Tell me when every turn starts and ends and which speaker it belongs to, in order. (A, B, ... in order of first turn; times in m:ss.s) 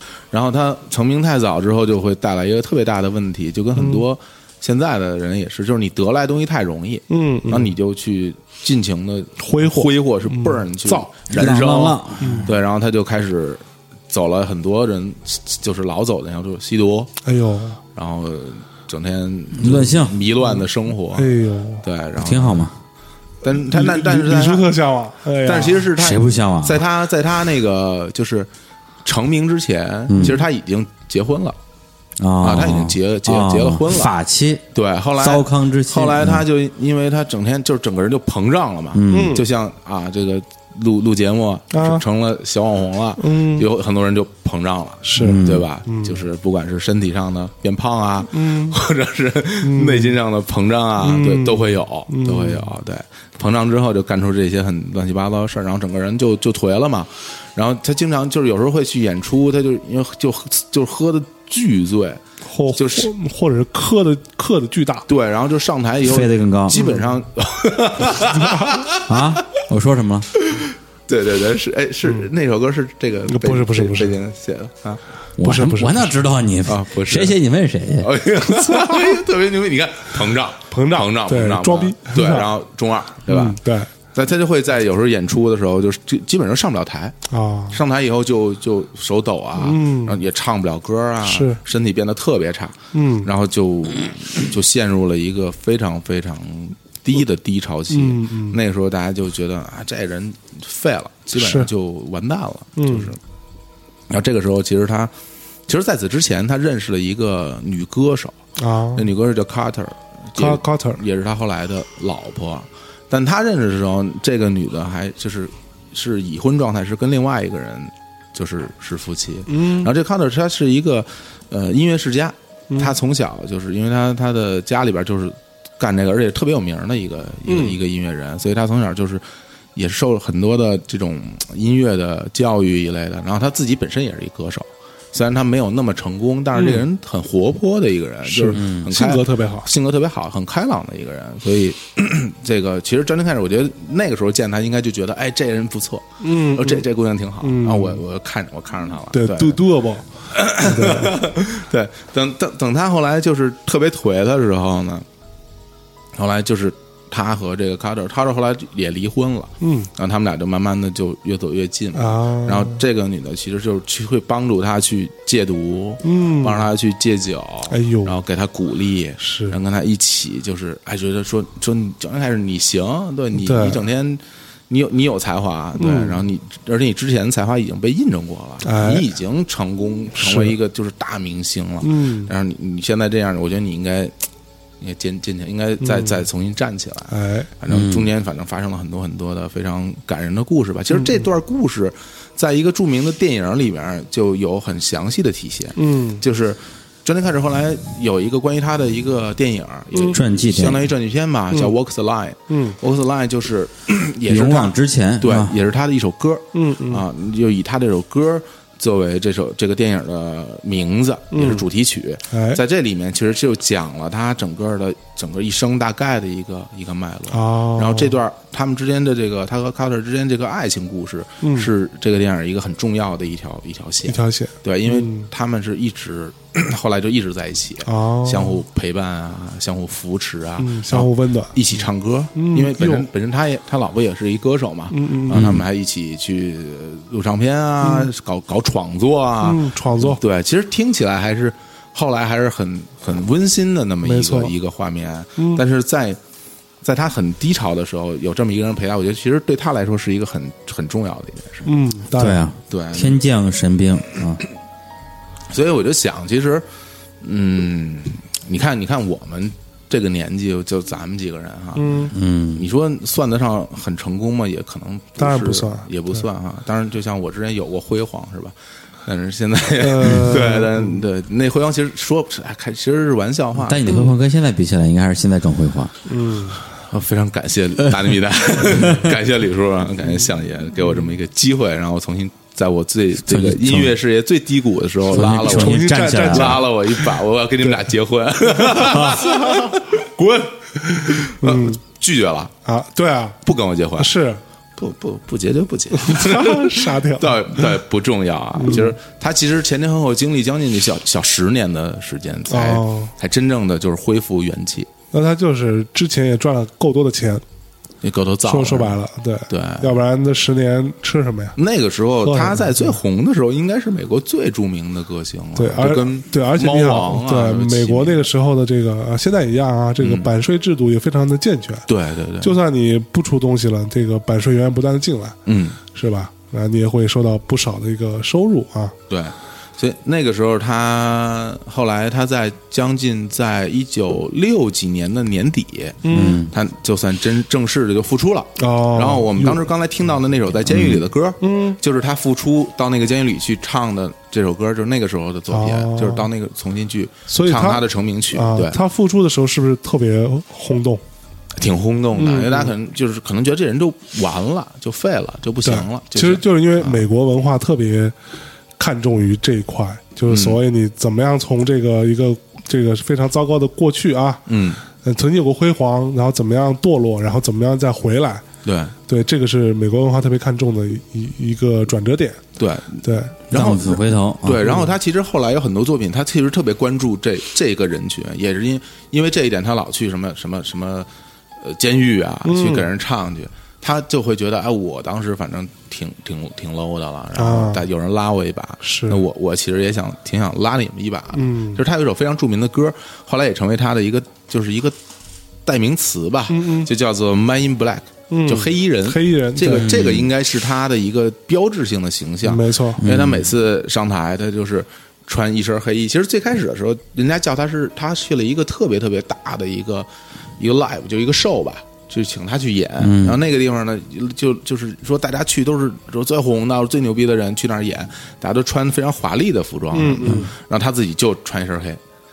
0:00.3-0:17.1 A
0:03.8-0:04.0 B
0:07.1-0:07.7 B
0:09.4-0:11.1 B
0:11.3-0:12.5 C
0:12.2-0:12.5 B
0:17.2-0:17.8 B
0:18.0-0:21.3 A
0:19.6-0:20.2 C
0:21.1-0:21.8 B
0:21.8-0:22.7 A
0:22.2-0:22.7 C
0:23.4-0:24.8 A
0:23.6-0:25.9 B
0:25.4-0:28.5 A
0:26.0-0:26.8 C
0:29.0-0:31.6 A
0:30.1-0:30.4 C
0:32.2-0:34.6 C
0:32.4-0:34.1 A
0:34.7-1:02.2 A
0:35.2-0:36.4 C
0:38.9-0:39.4 C
0:39.1-0:39.4 B
0:41.7-0:42.0 B
0:43.2-0:43.7 B
0:45.0-0:46.2 B
0:45.2-0:45.7 C
0:48.3-0:48.8 B
0:49.6-0:50.1 B
0:51.0-0:52.6 B
1:02.5-1:05.1 B
1:02.8-1:03.1 A
1:05.1-1:09.1 A
1:06.0-1:06.8 C
1:06.7-1:07.1 B
1:08.3-1:08.8 B
1:09.1-1:10.3 C
1:10.4-1:15.0 A
1:13.3-1:14.1 B
1:15.4-1:18.1 C
1:15.4-1:16.1 B
1:16.7-1:17.4 A
1:18.0-1:23.6 A
1:18.5-1:19.2 B
1:20.7-1:22.5 B
1:23.3-1:23.9 B
1:24.1-1:27.2 A
1:27.3-1:27.8 B
1:27.7-1:43.2 A
1:29.6-1:30.2 B
1:31.2-1:31.6 B
1:32.9-1:33.3 B
1:37.9-1:38.6 B
1:41.4-1:41.7 B
1:42.8-1:43.1 B
1:44.1-1:45.1 A
1:45.7-1:48.4 A
1:48.6-1:49.1 B
1:49.0-2:09.2 A
1:50.4-1:51.0 B
1:59.5-1:59.9 B
2:02.7-2:03.0 B
2:07.5-2:07.8 B
2:09.8-2:29.6 A
2:16.6-2:16.8 B
2:18.2-2:19.7 B
2:18.5-2:18.9 C
2:26.2-2:26.9 B
2:27.4-2:28.0 B
2:29.1-2:30.1 B
2:30.3-2:35.0 A
2:30.6-2:31.2 B
2:36.2-3:04.1 A
2:39.6-2:39.9 B
2:42.0-2:42.8 B
2:46.0-2:46.6 B
2:47.7-2:48.2 B
2:49.2-2:49.6 B
2:53.4-2:53.8 B
2:55.8-2:56.2 B
2:58.6-2:59.1 B
3:00.2-3:00.6 B
3:01.8-3:02.3 B
3:04.8-4:06.2 A
3:05.8-3:06.2 B
3:07.1-3:07.5 B
3:07.7-3:08.1 C
3:10.9-3:11.2 B
3:15.8-3:16.2 B
3:20.1-3:20.9 C
3:22.5-3:22.8 B
3:24.3-3:25.6 C
3:26.5-3:27.0 B
3:31.3-3:31.6 B
3:32.3-3:32.6 B
3:37.3-3:38.2 B
3:41.4-3:41.7 B
3:44.1-3:45.3 B
3:47.8-3:48.6 B
3:50.6-3:51.6 B
3:52.4-3:53.1 B
3:54.9-3:55.5 B
3:55.3-3:55.6 C
3:57.8-3:58.1 B
3:59.4-4:00.2 B
4:04.0-4:04.5 B
4:05.4-4:05.6 B
4:06.8-4:11.7 A
4:11.7-4:12.4 B
4:12.2-4:14.4 C
4:12.7-4:13.2 A
4:15.5-4:16.7 A
4:17.2-4:28.6 A
4:21.8-4:22.1 B
4:22.1-4:22.7 C
4:25.2-4:26.2 B
4:29.1-4:34.0 A
4:29.8-4:31.0 B
4:33.6-4:35.9 C
4:36.1-4:36.6 B
4:36.9-4:52.5 A
4:38.7-4:39.1 C
4:43.2-4:44.0 C
4:45.1-4:46.6 C
4:45.3-4:46.7 B
4:48.8-4:49.3 C
4:49.2-4:49.7 B
4:50.8-4:51.8 B
4:52.7-4:53.4 B
4:53.4-4:54.1 A
4:54.0-4:54.4 B
4:54.8-5:04.9 A
4:55.9-4:57.7 B
4:58.6-4:58.9 B
5:02.5-5:03.1 B
5:05.1-5:07.4 B
5:08.0-5:09.0 A
5:08.4-5:11.6 B
5:09.5-5:10.0 A
5:11.6-5:18.3 A
5:12.2-5:13.0 B
5:15.6-5:21.9 B
5:20.0-5:20.3 A
5:21.9-5:22.6 A
5:22.4-5:28.9 B
5:25.5-5:25.8 A
5:29.1-5:48.8 A
5:36.0-5:36.4 B
5:36.1-5:36.5 C
5:38.6-5:39.6 B
5:40.7-5:41.0 C
5:41.4-5:41.8 B
5:45.5-5:46.3 B
5:47.3-5:51.0 B
5:51.6-5:57.0 A
5:52.2-5:52.7 B
5:55.6-5:58.2 B
5:58.8-6:04.4 B
6:00.3-6:00.6 A
6:04.5-6:04.8 A
6:05.0-6:08.4 B
6:08.6-6:08.9 A
6:09.1-6:12.4 B
6:12.6-6:21.1 A
6:13.0-6:13.3 B
6:13.5-6:14.7 C
6:21.6-6:35.0 A
6:22.4-6:22.9 B
6:27.4-6:27.8 B
6:28.8-6:29.2 B
6:31.4-6:31.8 B
6:35.7-6:50.1 A
6:36.5-6:36.9 B
6:38.3-6:39.9 B
6:39.8-6:40.3 C
6:42.4-6:43.0 B
6:43.0-6:43.5 C
6:50.6-7:02.0 A
6:53.0-6:53.4 C
6:59.9-7:00.5 B